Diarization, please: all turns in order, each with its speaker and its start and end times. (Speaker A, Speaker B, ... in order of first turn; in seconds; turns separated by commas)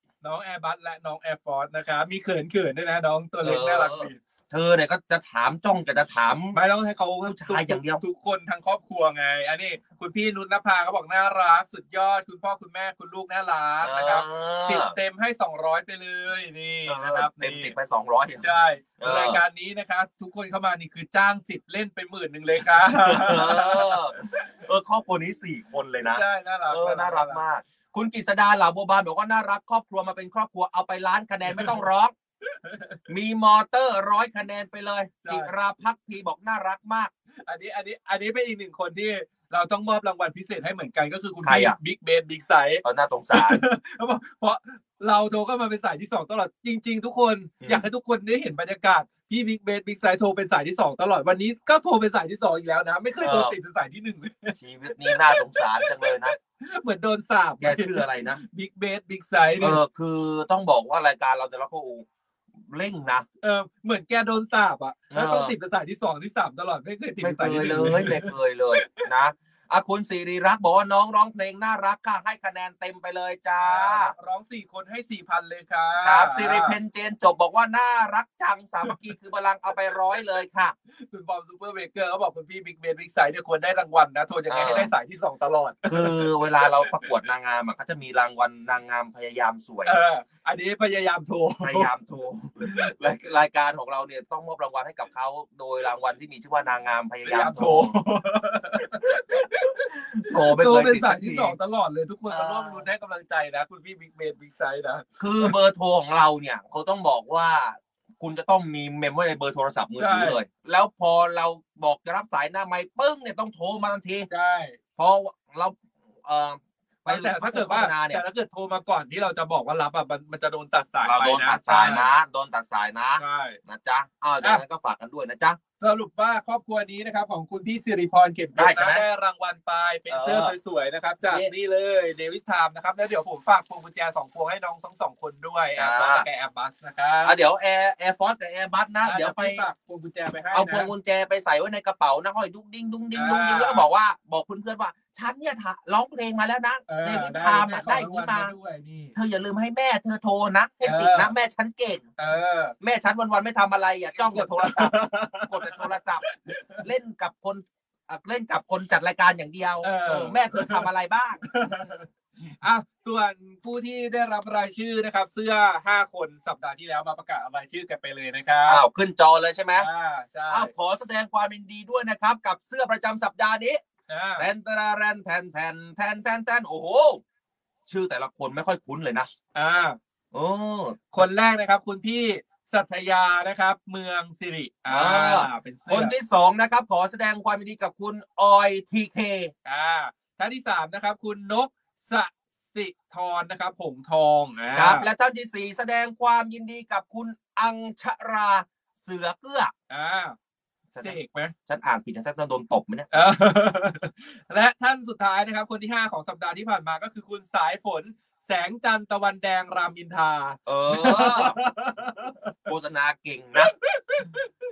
Speaker A: 0.2-4.2, Speaker B: 3.4-6.6, Speaker A: 6.5-17.7, Speaker B: 7.2-8.0, Speaker B: 13.8-14.9, Speaker B: 16.9-18.5, Speaker A: 18.4-24.4, Speaker B: 19.0-19.4, Speaker B: 22.8-32.1, Speaker A: 26.1-27.4, Speaker A: 31.5-31.8, Speaker A: 32.6-33.0, Speaker B: 33.1-37.1, Speaker A: 35.2-35.5, Speaker A: 37.5-59.8, Speaker B: 41.4-41.8, Speaker B: 42.8-43.6, Speaker B: 47.6-47.9, Speaker B: 53.2-53.6, Speaker B: 54.5-56.4, Speaker B: 57.6-58.4, Speaker B: 59.6-62.0, Speaker B: 62.7-63.3, Speaker A: 63.4-69.0, Speaker B: 65.1-65.5, Speaker B: 67.2-74.1, Speaker A: 73.6-76.8, Speaker B: 76.0-80.8, Speaker A: 81.0-87.1, Speaker B: 84.5-84.9, Speaker B: 85.9-90.0, Speaker A: 89.8-91.9, Speaker B: 91.6-98.0, Speaker A: 92.7-92.9, Speaker A: 97.2-105.5, Speaker B: 99.9-101.6, Speaker B: 102.3-102.9, Speaker B: 105.2-114.3, Speaker A: 110.0-110.4, Speaker A: 114.3-114.8, Speaker B: 115.0-118.2, Speaker A: 117.1-122.1, Speaker B: 121.0-125.6, Speaker A: 123.2-123.6, Speaker A: 125.8-137.4, Speaker B: 128.6-129.1, Speaker B: 130.1-130.6, Speaker B: 131.2-131.5, Speaker B: 135.8-136.2, Speaker B: 137.2-139.7, Speaker A: 139.0-140.9, Speaker B: 140.5-148.5, Speaker A: 143.1-143.9, Speaker A: 146.9-149.2, Speaker B: 149.2-152.1, Speaker A: 150.8-151.3, Speaker A: 152.2-152.8, Speaker B: 152.8-156.2, Speaker A: 154.2-156.8, Speaker B: 156.8-161.5, Speaker A: 159.8-160.9, Speaker A: 161.5-162.1, Speaker A: 162.6-168.8, Speaker B: 168.7-169.9, Speaker A: 169.8-170.7, Speaker B: 170.5-173.8, Speaker A: 174.1-174.5, Speaker B: 174.4-177.2, Speaker B: 177.9-179.3, Speaker A: 179.6-180.0, Speaker B: 180.3-181.3, Speaker A: 181.1-186.1, Speaker B: 184.9-189.5, Speaker A: 189.7-195.1, Speaker B: 194.8-199.7, Speaker A: 199.9-200.4, Speaker B: 200.9-203.1, Speaker A: 201.0-201.5, Speaker A: 203.1-212.6, Speaker B: 210.7-211.6, Speaker B: 212.7-213.7, Speaker A: 213.6-214.5